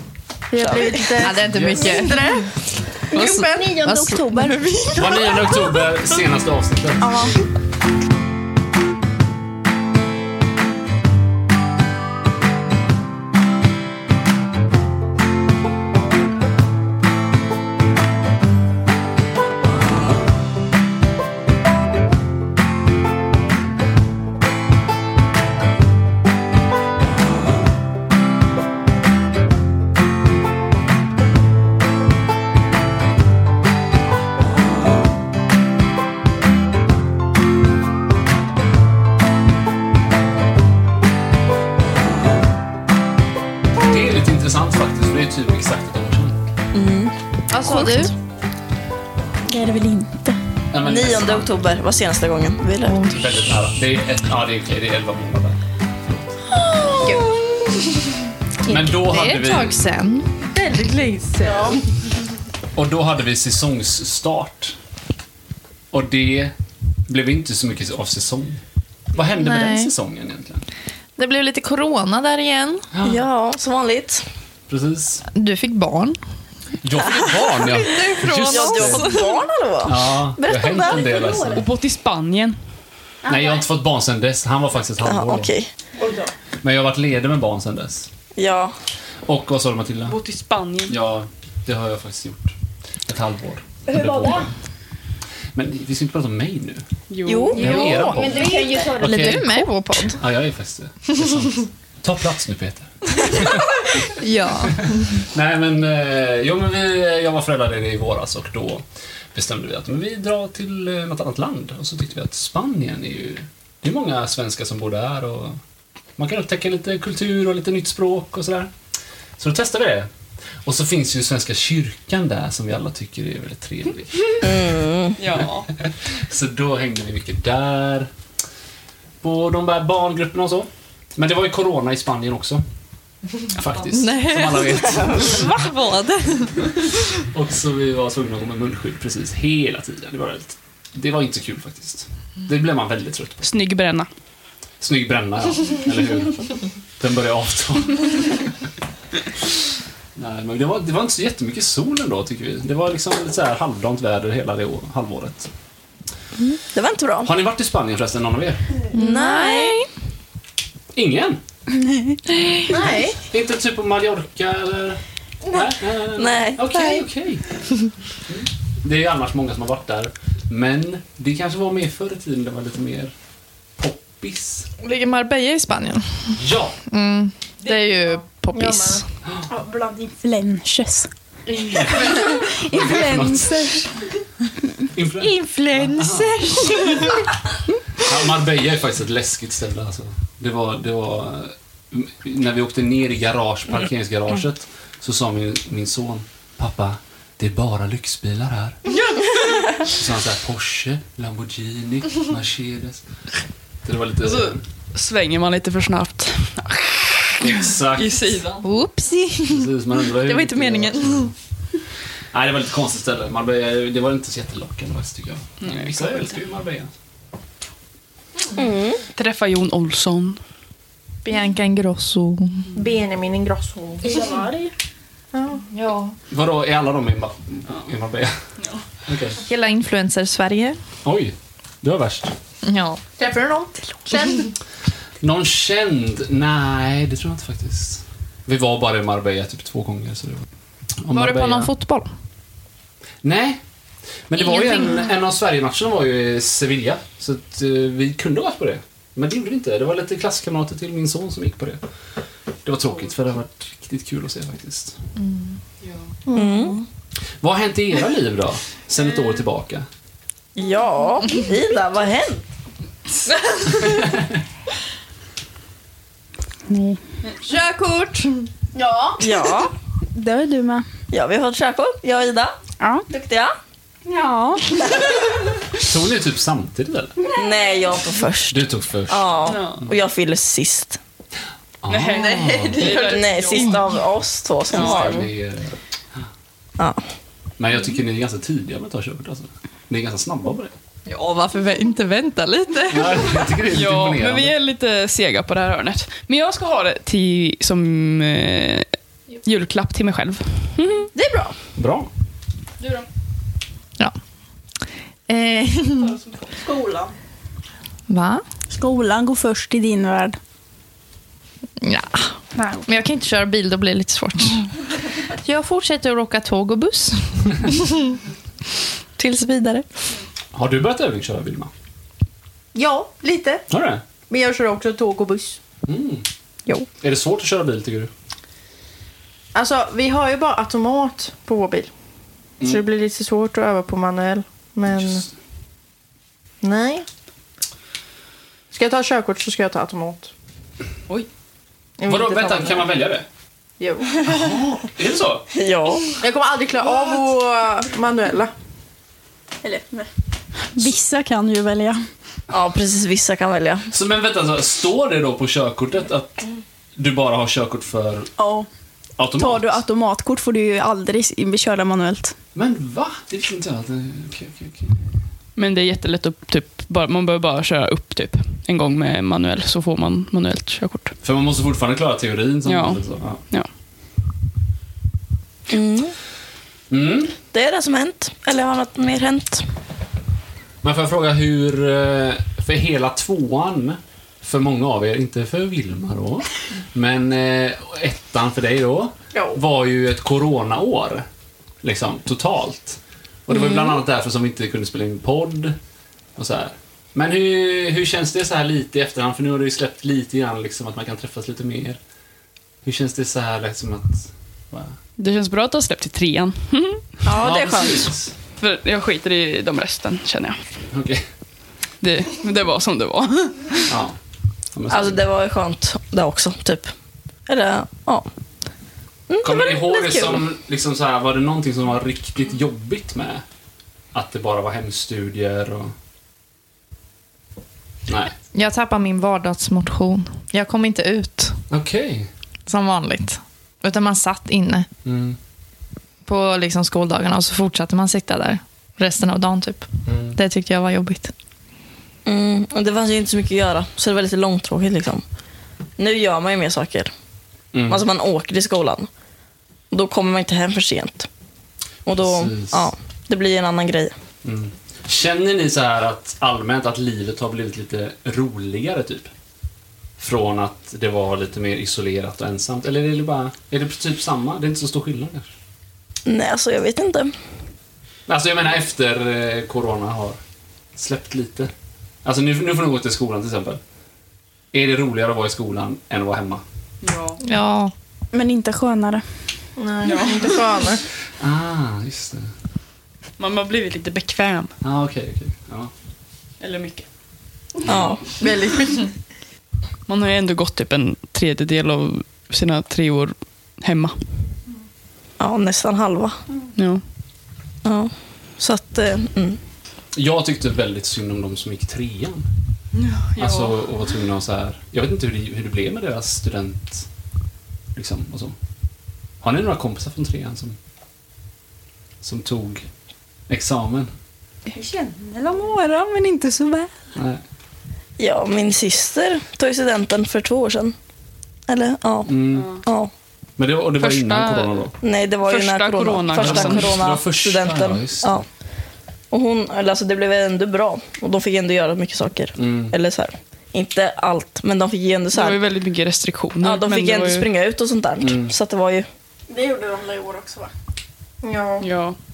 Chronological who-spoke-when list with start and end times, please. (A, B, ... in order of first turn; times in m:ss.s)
0:00.5-0:05.3 A
0:00.6-0:01.2 B
0:01.2-0:02.5 C
0:01.5-0:02.0 D
0:03.0-0:05.1 C
0:05.0-0:07.3 D
0:07.0-0:07.3 E
0:43.8-0:46.4 D
0:46.7-0:47.1 B
0:47.5-0:48.1 C
0:47.6-0:48.1 B
0:49.5-0:50.4 E
0:50.7-0:51.7 D
0:50.8-0:53.2 B
0:52.8-0:53.2 C
0:53.1-0:56.4 D
0:56.8-0:57.3 B
0:58.6-1:00.3 C
0:58.6-0:59.8 D
1:00.5-1:01.8 A
1:02.7-1:04.8 D
1:05.9-1:06.5 D
1:07.1-1:08.6 D
1:09.1-1:10.6 D
1:09.3-1:09.9 C
1:11.2-1:12.9 C
1:12.9-1:13.2 D
1:13.0-1:14.2 B
1:14.7-1:15.2 D
1:15.3-1:16.2 C
1:16.8-1:19.2 D
1:17.5-1:19.3 C
1:18.4-1:21.3 B
1:19.8-1:21.7 D
1:21.1-1:21.6 A
1:21.4-1:22.6 F
1:23.3-1:25.5 D
1:25.0-1:25.7 B
1:26.0-1:26.3 A
1:26.6-1:28.1 D
1:28.4-1:28.7 B
1:29.2-1:30.2 D
1:30.1-1:30.9 F
1:30.9-1:32.5 D
1:33.1-1:34.5 D
1:33.9-1:34.4 A
1:35.5-1:36.8 D
1:37.1-1:38.0 F
1:37.2-1:37.9 B
1:37.5-1:39.2 A
1:37.6-1:55.6 D
1:38.4-1:40.2 C
1:44.0-1:45.2 C
1:56.2-1:58.7 D
1:59.4-2:00.1 D
2:00.6-2:04.4 D
2:04.4-2:05.2 B
2:05.2-2:05.7 F
2:05.3-2:08.1 D
2:09.2-2:12.6 D
2:13.5-2:15.5 D
2:13.9-2:17.1 C
2:17.2-2:23.5 D
2:23.4-2:24.1 F
2:24.8-2:28.2 D
2:30.2-2:35.5 D
2:36.6-2:37.3 B
2:37.2-2:38.6 D
2:38.9-2:39.8 B
2:38.9-2:39.9 C
2:40.9-2:41.4 D
2:42.0-2:42.7 C
2:42.7-2:43.2 A
2:42.8-2:47.4 D
2:46.2-2:47.1 B
2:48.2-2:53.1 D
2:53.8-2:54.7 D
2:54.8-2:59.0 C
2:56.3-2:56.8 D
2:58.5-2:59.0 A
2:59.5-3:01.1 E
2:59.6-3:00.1 A
3:01.7-3:03.7 D
3:02.7-3:03.8 E
3:04.9-3:07.0 D
3:05.6-3:06.0 E
3:05.6-3:06.6 C
3:07.9-3:18.8 D
3:19.1-3:19.7 F
3:19.8-3:23.0 D
3:23.8-3:24.6 D
3:24.2-3:28.6 F
3:27.4-3:28.2 D
3:28.6-3:31.3 C
3:29.5-3:31.3 D
3:32.3-3:36.9 D
3:35.6-3:36.4 F
3:38.5-3:39.0 B
3:39.2-3:40.4 F
3:41.2-3:42.7 C
3:42.7-3:44.7 A
3:45.3-3:45.6 A
3:45.7-3:46.2 C
3:46.3-3:48.4 D
3:49.0-3:49.4 D
3:49.4-3:50.8 C
3:51.0-3:52.3 D
3:52.6-3:53.0 C
3:53.2-3:54.5 A
3:55.2-4:00.4 D
4:01.0-4:01.7 D
4:01.1-4:02.1 C
4:03.2-4:03.6 D
4:04.3-4:11.8 D
4:04.4-4:05.0 C
4:12.6-4:15.0 D
4:15.2-4:15.6 C
4:16.3-4:16.7 A
4:16.3-4:16.8 B
4:17.4-4:19.9 D
4:20.6-4:22.4 B
4:23.7-4:24.4 D
4:26.7-4:27.0 E
4:27.5-4:28.2 C
4:28.7-4:29.3 A
4:29.2-4:29.7 B
4:30.1-4:30.8 E
4:31.1-4:32.5 B
4:32.8-4:33.0 E
4:33.1-4:33.5 B
4:34.0-4:34.7 E
4:35.8-4:37.2 D
4:37.3-4:41.0 B
4:38.5-4:39.5 D
4:39.4-4:39.8 F
4:41.8-4:43.0 D
4:41.9-4:43.9 F
4:42.9-4:45.2 B
4:44.7-4:45.3 F
4:44.7-4:45.8 D
4:47.6-4:50.7 D
4:51.0-4:53.5 C
4:52.9-4:54.5 D
4:53.7-5:01.1 F
5:01.1-5:01.5 B
5:01.8-5:02.1 D
5:05.3-5:06.1 C
5:06.6-5:07.1 A
5:08.1-5:08.4 C
5:08.7-5:10.4 E
5:11.8-5:14.7 C
5:12.6-5:12.8 A
5:15.3-5:18.1 C
5:19.2-5:19.9 C
5:20.5-5:21.7 D
5:22.7-5:23.6 A
5:23.7-5:24.0 D
5:24.3-5:25.6 A
5:25.9-5:26.2 D
5:27.0-5:28.1 D
5:29.5-5:31.9 A
5:32.6-5:35.2 A
5:36.6-5:37.0 A
5:38.7-5:40.3 A
5:42.0-5:42.9 A
5:42.0-5:43.2 D
5:43.8-5:44.4 A
5:44.2-5:45.5 D
5:45.5-5:46.1 B
5:46.2-5:48.5 A
5:49.6-5:50.1 A
5:50.7-5:52.1 E
5:52.5-5:53.9 B
5:53.9-5:56.4 D
5:57.0-5:58.3 D
5:58.4-5:58.7 E
5:59.2-5:59.8 D
5:59.3-6:02.3 E
6:02.5-6:05.0 D
6:05.6-6:11.1 F
6:11.2-6:13.4 D
6:12.6-6:13.7 F
6:15.7-6:16.1 B
6:16.9-6:17.3 D
6:17.5-6:19.6 B
6:20.8-6:31.2 D
6:31.8-6:35.8 D
6:36.4-6:42.0 D
6:42.8-6:45.0 D
6:45.2-6:47.2 F
6:47.2-6:48.1 B
6:47.4-6:48.3 D
6:48.6-6:50.6 F
6:50.9-6:51.3 D
6:52.0-6:53.9 F
6:53.9-6:54.2 D
6:54.7-6:55.2 D
6:54.9-6:56.9 B
6:57.5-6:58.3 B
6:59.3-7:00.4 B
6:59.4-7:03.4 D
7:04.1-7:05.9 D
7:08.1-7:08.3 D
7:08.5-7:11.6 C
7:11.7-7:12.3 D
7:12.6-7:14.9 C
7:15.0-7:15.4 D
7:16.2-7:21.3 C
7:20.0-7:20.4 D
7:22.2-7:25.2 B
7:26.0-7:27.1 B
7:27.7-7:28.0 D
7:27.9-7:29.1 B
7:29.9-7:31.3 B
7:32.0-7:34.1 B
7:32.1-7:32.9 D
7:34.4-7:39.3 D
7:40.2-7:45.5 D
7:46.2-7:47.3 B
7:48.3-7:50.4 D
7:50.9-7:51.7 D
7:52.2-7:53.8 D
7:54.7-7:56.6 D
7:57.0-7:57.4 F
7:57.4-7:57.9 C
7:58.3-7:59.2 E
7:59.8-8:01.0 A
8:00.0-8:00.8 F
8:01.4-8:02.5 D
8:03.4-8:04.7 F
8:04.8-8:05.9 D
8:06.6-8:07.0 F
8:07.8-8:08.2 D
8:07.8-8:08.2 B
8:08.4-8:09.1 A
8:10.1-8:14.2 F
8:15.4-8:16.4 B
8:16.8-8:17.0 F
8:17.8-8:19.6 B
8:20.1-8:22.5 D
8:22.9-8:23.8 F
8:23.4-8:27.1 D
8:27.9-8:28.5 D
8:29.4-8:30.8 D
8:32.2-8:32.8 D
8:33.5-8:34.1 D
8:34.7-8:35.6 A
8:37.1-8:37.4 D
8:38.2-8:40.9 B
8:41.7-8:43.1 B
8:42.2-8:42.8 D
8:42.5-8:42.8 F
8:43.6-8:44.9 D
8:44.0-8:44.8 F
8:45.0-8:48.4 B
8:45.4-8:46.9 F
8:46.4-8:48.4 D
8:49.3-8:55.6 B
8:52.6-8:52.9 D
8:55.3-8:57.5 F
8:56.6-8:59.1 B
8:58.2-8:58.5 D
8:59.5-9:00.3 A
8:59.8-9:00.7 E
9:01.4-9:01.9 A
9:01.8-9:02.2 F